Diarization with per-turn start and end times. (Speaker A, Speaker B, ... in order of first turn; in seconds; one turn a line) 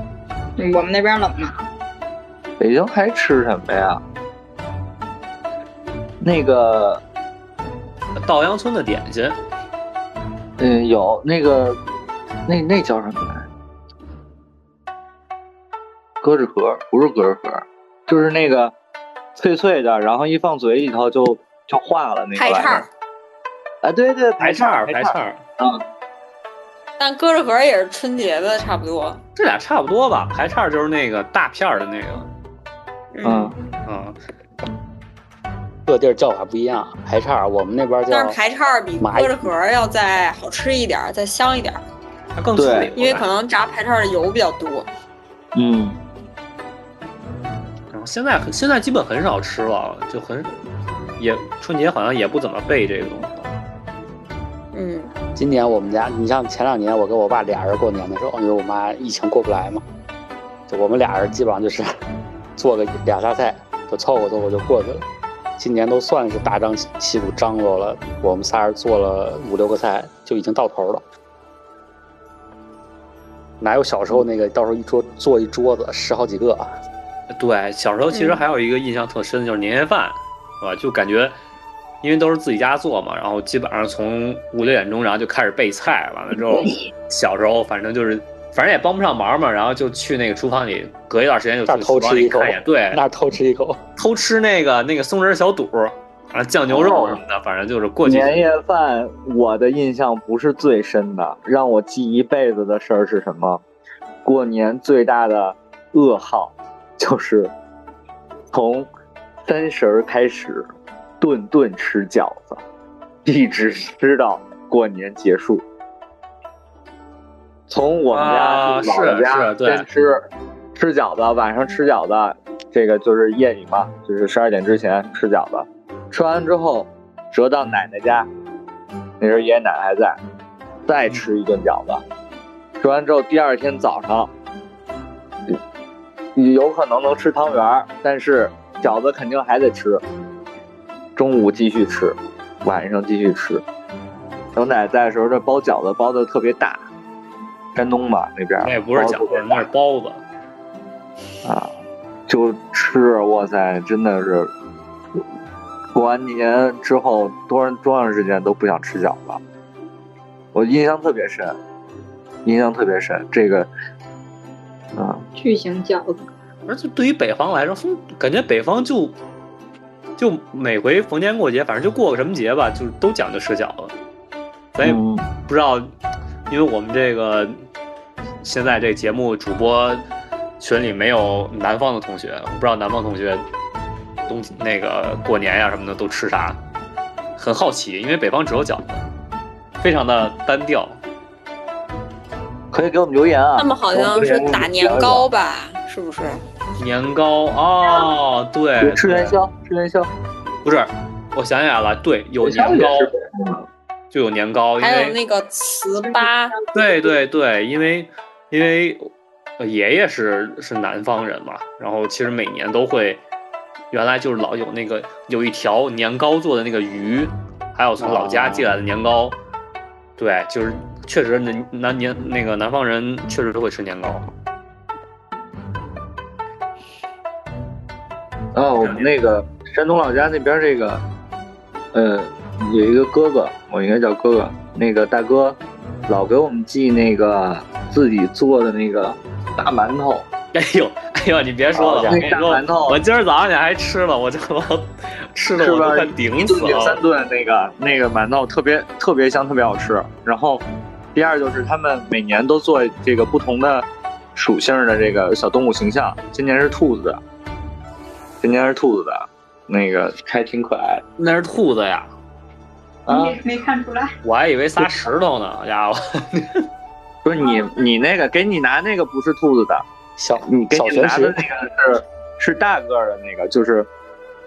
Speaker A: 0.6-1.5
Speaker B: 2.6-4.0
Speaker B: 6.2-7.0
Speaker C: 8.2-9.4
Speaker B: 10.6-11.8
Speaker B: 12.5-13.5
Speaker B: 16.2-18.7
Speaker B: 19.4-22.9
Speaker D: 22.4-22.9
Speaker B: 23.8-25.8
Speaker C: 24.4-25.4
Speaker D: 27.0-29.2
Speaker C: 29.4-32.3
Speaker D: 33.1-33.5
Speaker B: 33.2-33.5
Speaker C: 33.9-34.2
Speaker E: 35.9-38.4
Speaker D: 38.1-41.8
Speaker E: 39.0-39.5
Speaker C: 42.3-43.3
Speaker B: 42.5-42.9
Speaker D: 43.0-44.9
Speaker B: 45.5-46.0
Speaker C: 47.9-50.5
Speaker C: 51.2-53.5
Speaker D: 54.7-55.1
Speaker E: 55.4-59.8
Speaker E: 60.7-61.9
Speaker E: 62.6-65.0
Speaker E: 65.6-71.0
Speaker E: 73.6-76.7
Speaker C: 77.3-81.3
Speaker D: 78.1-78.4
Speaker C: 82.0-93.0
Speaker E: 91.7-93.8
Speaker C: 94.0-98.4
Speaker B: 96.7-97.2
Speaker B: 98.0-103.6
Speaker B: 104.2-107.5
Speaker B: 108.5-108.9
Speaker B: 109.5-112.6
Speaker B: 113.2-115.6
Speaker B: 117.7-128.3
Speaker C: 118.1-119.8
Speaker B: 129.2-130.2
Speaker B: 130.9-132.0
Speaker B: 132.8-134.3
Speaker B: 136.3-140.0
Speaker B: 141.2-143.6
Speaker B: 144.5-146.8
Speaker B: 147.7-149.7
Speaker C: 148.6-150.2
Speaker B: 151.4-151.8
Speaker B: 152.3-154.5
Speaker B: 155.9-159.4
Speaker B: 160.5-161.6
Speaker B: 162.4-163.7
Speaker B: 164.9-165.2
Speaker A: 165.3-166.2
Speaker C: 166.7-169.2
Speaker C: 170.2-173.9
Speaker C: 174.7-175.9
Speaker B: 174.8-175.3
Speaker C: 176.5-177.6
Speaker C: 178.4-180.0
Speaker C: 180.6-183.4
Speaker C: 184.3-186.6
Speaker C: 187.4-189.1
Speaker C: 189.8-191.0
Speaker B: 192.7-195.3
Speaker D: 193.6-196.4
Speaker C: 196.8-199.3
Speaker B: 198.8-200.1
Speaker C: 200.6-203.1
Speaker B: 202.4-203.7
Speaker C: 204.1-205.1
Speaker D: 204.8-206.5
Speaker C: 206.7-213.2
Speaker C: 213.9-219.4
Speaker E: 218.0-218.7
Speaker C: 220.2-224.2
Speaker B: 228.5-231.0
Speaker C: 228.8-229.1
Speaker B: 231.9-240.3
Speaker C: 240.5-247.0
Speaker B: 241.7-243.0
Speaker E: 241.9-242.3
Speaker B: 245.6-257.2
Speaker B: 258.4-261.0
Speaker C: 261.2-262.1
Speaker B: 263.1-263.4
Speaker A: 263.1-264.1
Speaker C: 264.2-266.6
Speaker B: 267.2-269.8
Speaker E: 270.2-271.4
Speaker B: 270.4-273.9